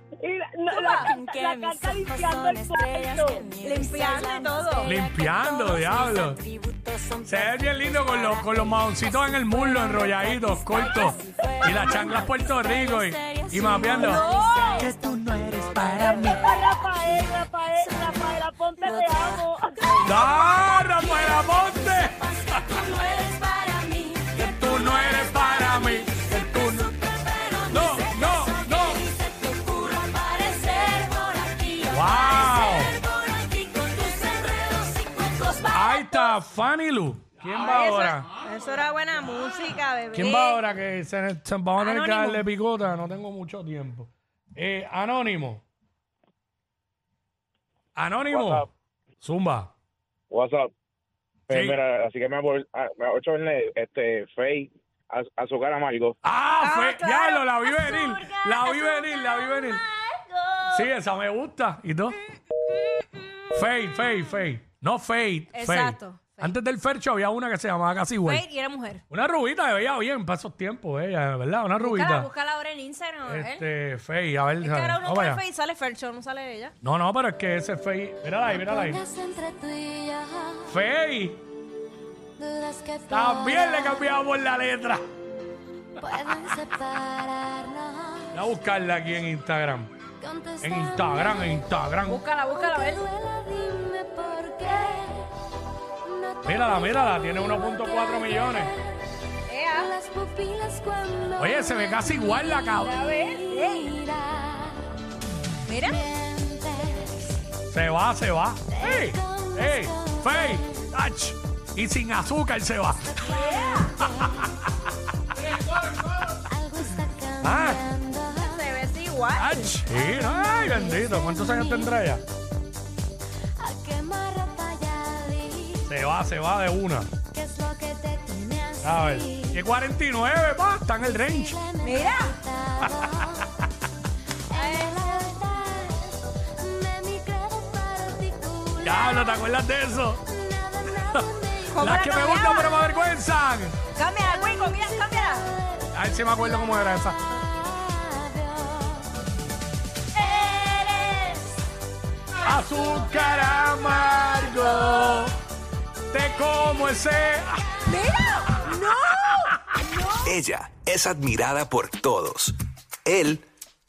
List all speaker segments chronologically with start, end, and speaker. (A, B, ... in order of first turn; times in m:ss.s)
0:00.2-0:03.4 A
0:00.7-0:01.1 B
0:00.7-0:36.4 C
0:03.6-0:05.0 B
0:04.8-0:06.4 D
0:07.2-0:14.2 D
0:14.0-0:14.9 B
0:16.4-0:19.6 A
0:20.0-0:22.6 D
0:24.4-0:26.9 D
0:27.7-0:29.0 D
0:31.9-0:33.0 D
0:35.7-0:38.3 D
0:37.6-0:40.6 B
0:40.2-0:45.6 D
0:41.8-0:42.5 B
0:48.0-0:48.7 D
0:48.3-0:48.7 E
0:49.2-0:49.7 D
0:50.3-0:50.7 E
0:51.5-0:56.2 E
0:51.5-0:51.8 D
0:56.2-0:59.8 D
0:56.6-1:00.9 B
1:00.7-1:02.2 D
1:03.5-1:08.5 D
1:05.5-1:06.6 B
1:08.2-1:09.0 B
1:09.1-1:12.3 D
1:11.8-1:13.6 B
1:13.2-1:15.4 D
1:14.6-1:16.8 B
1:16.8-1:19.0 D
1:18.5-1:20.7 C
1:20.7-1:21.4 D
1:22.4-1:24.1 C
1:23.1-1:25.0 D
1:26.0-1:28.4 C
1:28.3-1:29.9 D
1:30.2-1:31.6 C
1:30.6-1:32.2 D
1:32.1-1:33.0 B
1:32.4-1:35.3 C
1:36.0-1:39.0 C
1:36.4-1:38.7 D
1:39.5-1:39.9 B
1:39.7-1:45.0 C
1:41.4-1:43.0 D
1:42.8-1:43.9 B
1:45.7-1:46.0 B
1:45.8-1:47.4 C
1:47.7-1:53.2 D
1:48.7-1:50.7 C
1:53.2-1:54.5 C
1:53.3-1:53.9 B
1:56.1-1:58.6 C
1:57.4-1:57.8 D
1:58.4-1:59.7 B
1:59.4-2:02.2 D
1:59.9-2:02.0 C
2:03.6-2:05.9 C
2:05.9-2:07.1 D
2:07.3-2:09.6 C
2:08.8-2:11.6 D
2:11.1-2:13.5 C
2:11.8-2:12.3 B
2:14.5-2:22.1 C
2:14.5-2:15.1 B
2:18.8-2:20.2 D
2:21.7-2:22.8 B
2:21.8-2:23.8 D
2:24.0-2:25.5 B
2:24.2-2:29.2 C
2:25.9-2:27.2 D
2:30.2-2:31.2 C
2:30.5-2:31.3 B
2:32.4-2:35.3 D
2:36.1-2:37.7 D
2:37.9-2:40.2 B
2:40.2-2:42.6 F
2:43.1-2:43.4 F